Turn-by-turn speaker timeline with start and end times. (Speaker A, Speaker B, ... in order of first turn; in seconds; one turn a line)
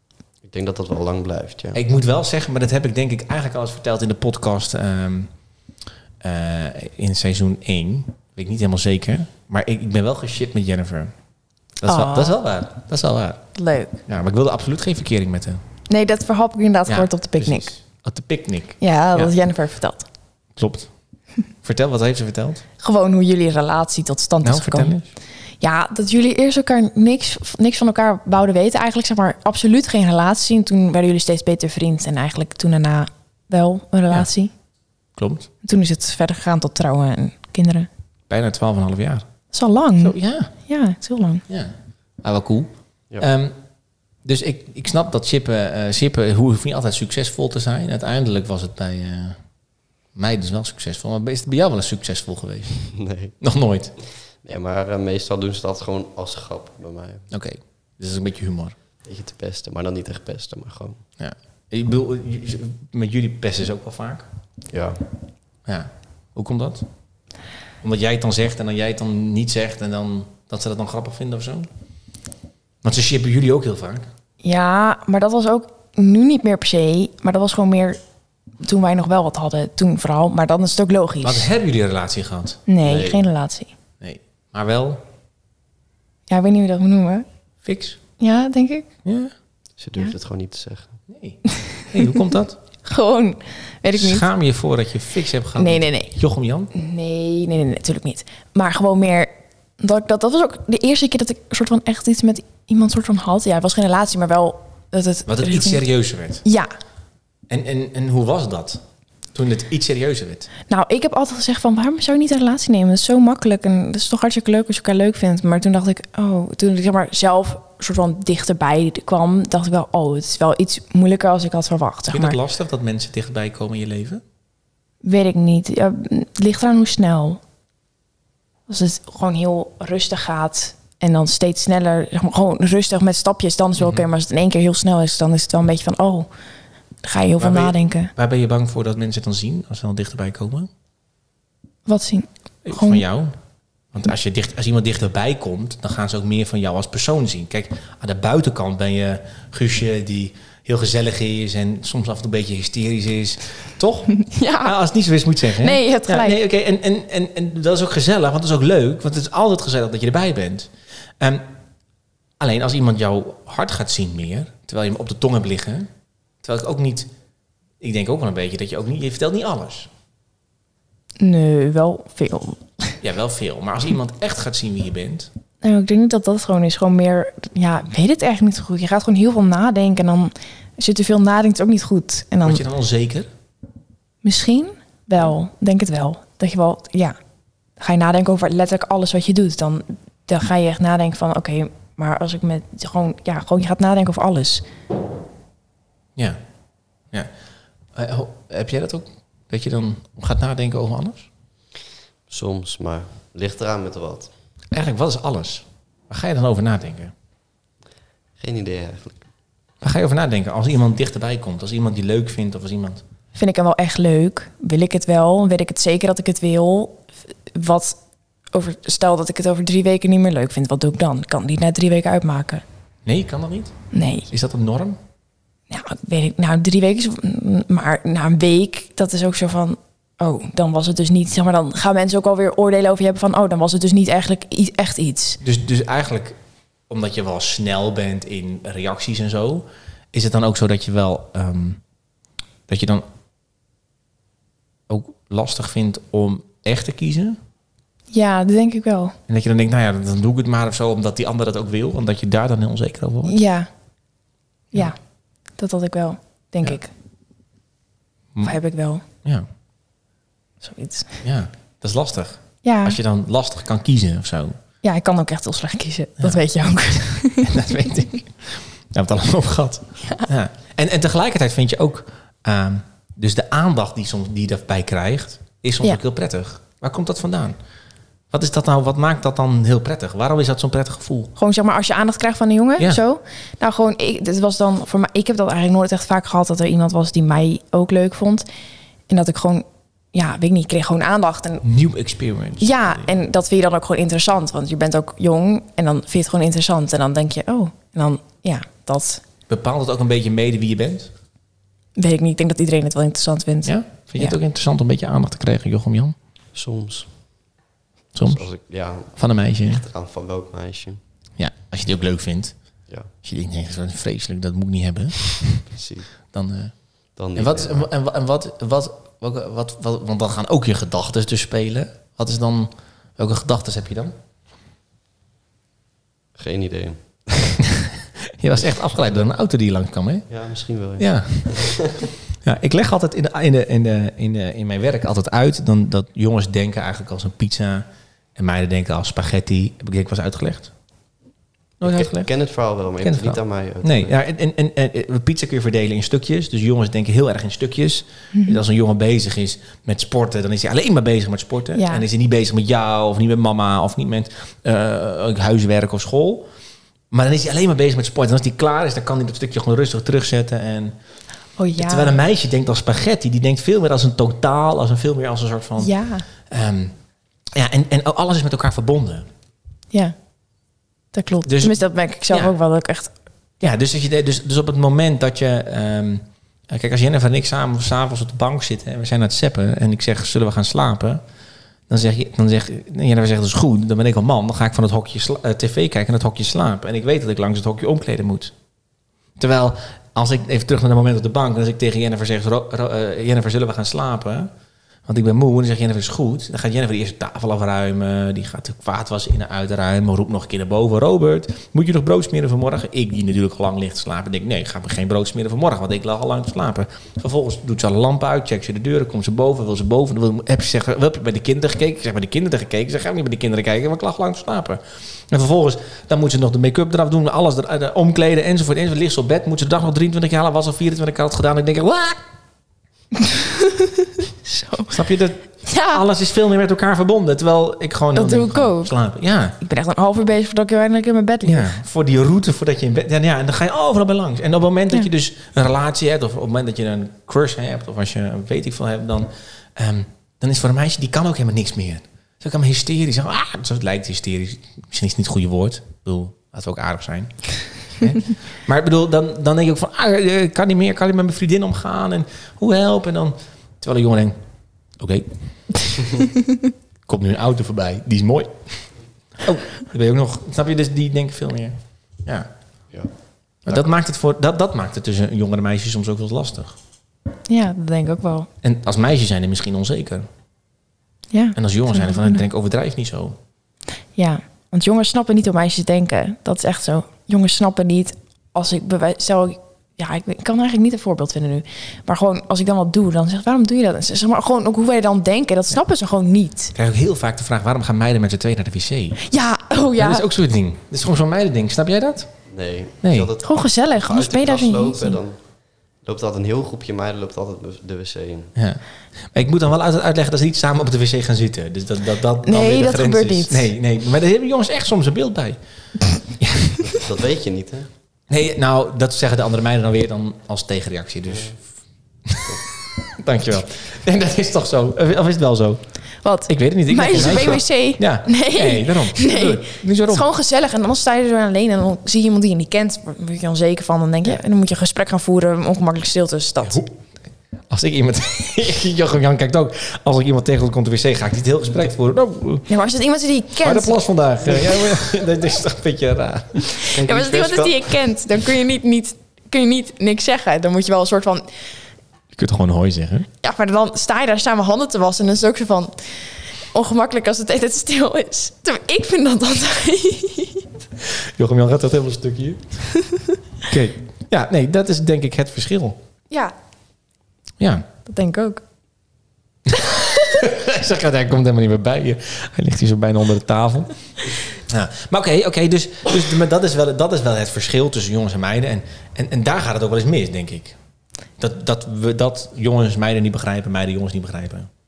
Speaker A: 0.4-1.8
Speaker B: 1.7-5.3
Speaker B: 6.2-11.1
Speaker B: 11.8-13.4
Speaker C: 11.8-12.4
Speaker C: 13.6-14.0
Speaker B: 14.1-15.6
Speaker C: 15.9-17.7
Speaker B: 16.9-19.3
Speaker C: 18.8-20.1
Speaker B: 20.6-20.9
Speaker B: 21.6-22.6
Speaker C: 22.8-25.0
Speaker B: 24.4-25.1
Speaker C: 25.6-34.5
Speaker B: 35.2-35.5
Speaker C: 35.6-37.9
Speaker B: 38.3-39.3
Speaker C: 39.5-41.4
Speaker B: 40.0-40.5
Speaker B: 41.5-43.5
Speaker B: 44.2-49.4
Speaker B: 50.1-54.0
Speaker A: 52.9-53.4
Speaker A: 54.0-57.3
Speaker B: 57.3-58.8
Speaker A: 59.0-61.0
Speaker B: 61.2-64.3
Speaker A: 64.7-65.0
Speaker B: 65.7-66.9
Speaker B: 67.8-71.7
Speaker B: 72.8-74.1
Speaker C: 74.4-78.0
Speaker C: 78.6-81.5
Speaker B: 81.2-82.6
Speaker C: 82.7-83.7
Speaker A: 82.8-83.3
Speaker B: 84.0-85.0
Speaker C: 86.3-87.3
Speaker B: 87.6-88.0
Speaker C: 88.2-88.9
Speaker B: 89.0-89.3
Speaker A: 89.8-91.0
Speaker B: 91.1-92.6
Speaker C: 92.8-94.3
Speaker B: 93.9-96.7
Speaker C: 95.6-96.1
Speaker C: 96.7-105.8
Speaker B: 105.3-106.4
Speaker C: 106.4-106.7
Speaker B: 107.5-108.8
Speaker B: 109.3-110.5
Speaker C: 110.7-122.4
Speaker B: 122.1-124.2
Speaker C: 125.0-127.4
Speaker C: 128.7-136.3
Speaker B: 133.8-134.1
Speaker C: 137.0-138.1
Speaker B: 137.4-140.7
Speaker C: 141.9-143.0
Speaker B: 142.7-143.3
Speaker B: 143.9-161.4
Speaker C: 154.2-154.8
Speaker C: 155.6-156.4
Speaker B: 162.4-165.9
Speaker B: 166.4-167.1
Speaker B: 167.8-169.9
Speaker C: 171.2-173.0
Speaker B: 173.0-175.3
Speaker C: 175.6-182.6
Speaker B: 182.4-183.3
Speaker C: 184.2-187.2
Speaker C: 187.8-194.7
Speaker B: 197.9-201.3
Speaker A: 202.3-204.3
Speaker B: 204.7-207.1
Speaker A: 208.4-209.3
Speaker B: 209.8-213.0
Speaker C: 213.3-218.0
Speaker C: 218.5-222.6
Speaker B: 223.1-223.7
Speaker C: 223.9-224.3
Speaker B: 224.3-225.0
Speaker C: 225.7-235.4
Speaker B: 235.4-236.4
Speaker B: 236.9-241.8
Speaker B: 242.7-243.1
Speaker B: 244.9-247.4
Speaker C: 248.1-249.2
Speaker B: 249.3-253.4
Speaker C: 253.2-253.7
Speaker C: 254.7-255.0
Speaker C: 255.6-256.9
Speaker C: 258.4-259.0
Speaker C: 260.6-261.2
Speaker B: 261.2-264.6
Speaker C: 262.6-263.0
Speaker C: 264.8-267.6
Speaker B: 267.4-277.6
Speaker C: 270.0-270.3
Speaker B: 278.3-281.3
Speaker C: 281.4-288.5
Speaker C: 289.1-291.6
Speaker B: 291.6-293.1
Speaker C: 292.6-299.2
Speaker B: 299.5-301.1
Speaker C: 302.0-304.4
Speaker B: 303.6-306.2
Speaker A: 306.5-307.5
Speaker B: 308.1-308.5
Speaker A: 308.2-311.0
Speaker B: 309.1-309.8
Speaker B: 311.4-315.7
Speaker A: 315.6-316.1
Speaker B: 316.3-324.1
Speaker A: 317.1-317.9
Speaker A: 326.4-327.7
Speaker B: 328.4-330.3
Speaker A: 328.6-329.3
Speaker A: 330.3-332.1
Speaker B: 331.0-331.9
Speaker B: 332.4-340.7
Speaker B: 341.8-342.3
Speaker A: 341.8-344.1
Speaker B: 343.0-356.5
Speaker C: 348.3-348.6
Speaker C: 351.8-352.1
Speaker B: 357.1-360.9
Speaker C: 361.6-362.2
Speaker B: 361.8-366.9
Speaker C: 365.8-366.3
Speaker B: 367.5-369.3
Speaker C: 371.1-373.1
Speaker B: 371.4-372.5
Speaker B: 373.6-381.2
Speaker B: 381.9-388.5
Speaker B: 389.4-394.5
Speaker B: 395.1-422.2
Speaker C: 424.4-424.9
Speaker B: 424.9-429.6
Speaker C: 425.6-426.0
Speaker C: 428.1-428.9
Speaker C: 429.6-431.8
Speaker B: 431.4-454.4
Speaker B: 454.9-455.6
Speaker B: 457.1-462.5
Speaker B: 463.6-466.8
Speaker C: 467.5-468.5
Speaker B: 468.6-470.3
Speaker C: 471.3-472.4
Speaker B: 471.6-473.4
Speaker C: 474.2-486.7
Speaker B: 486.8-489.2
Speaker C: 489.2-490.3
Speaker B: 490.0-492.3
Speaker A: 492.5-498.5
Speaker B: 493.0-493.3
Speaker C: 493.4-495.2
Speaker B: 498.6-505.6
Speaker C: 502.4-503.7
Speaker B: 506.2-506.8
Speaker A: 506.8-507.9
Speaker B: 508.3-511.6
Speaker A: 511.3-511.6
Speaker B: 513.1-520.3
Speaker C: 516.2-526.8
Speaker B: 526.6-526.9
Speaker B: 527.7-532.7
Speaker C: 532.7-534.0
Speaker B: 533.6-536.9
Speaker C: 536.8-541.5
Speaker A: 536.9-537.8
Speaker B: 542.3-543.3
Speaker C: 543.4-546.0
Speaker C: 546.7-550.7
Speaker B: 551.0-552.8
Speaker B: 553.6-556.0
Speaker B: 557.6-557.9
Speaker C: 558.1-558.6
Speaker B: 559.8-570.8
Speaker B: 571.4-574.7